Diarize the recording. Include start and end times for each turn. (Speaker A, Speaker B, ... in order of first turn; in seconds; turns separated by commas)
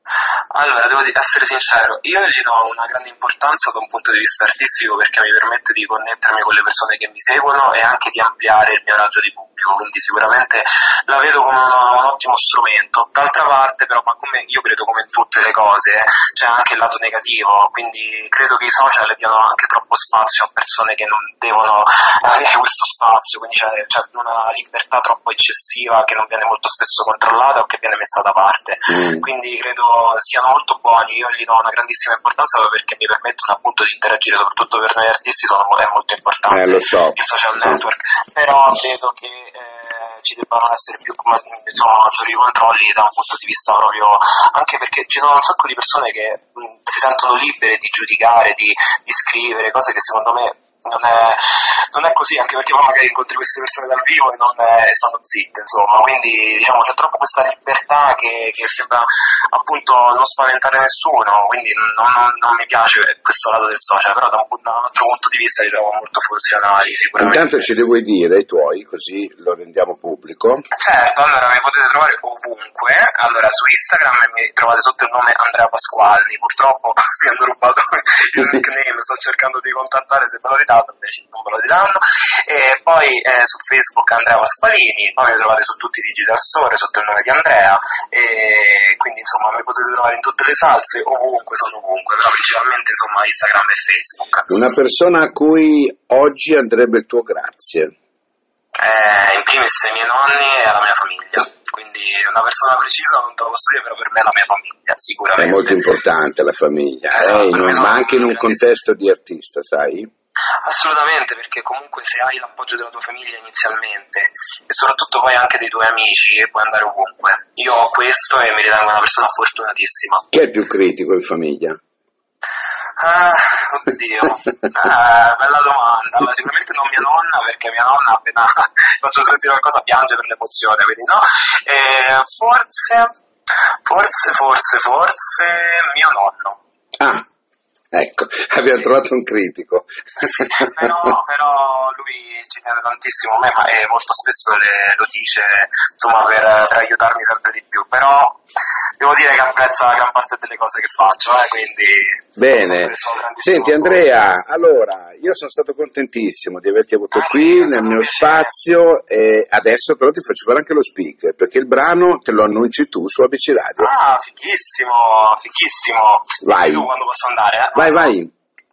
Speaker A: 0.5-67.7, Speaker B: 28.9-29.3, Speaker B: 36.5-37.8, Speaker B: 67.2-70.7, Speaker A: 70.7-94.5, Speaker B: 94.5-97.9, Speaker A: 98.8-105.8, Speaker B: 105.4-110.1, Speaker A: 107.1-108.7, Speaker A: 110.6-120.3, Speaker B: 120.3-121.8, Speaker A: 123.0-133.1, Speaker A: 133.9-136.6, Speaker B: 137.0-137.2, Speaker B: 137.9-141.1, Speaker A: 140.2-148.4, Speaker A: 149.0-154.1, Speaker B: 152.4-163.9, Speaker A: 157.1-158.5, Speaker A: 163.8-168.1, Speaker B: 166.4-166.9, Speaker B: 167.8-168.3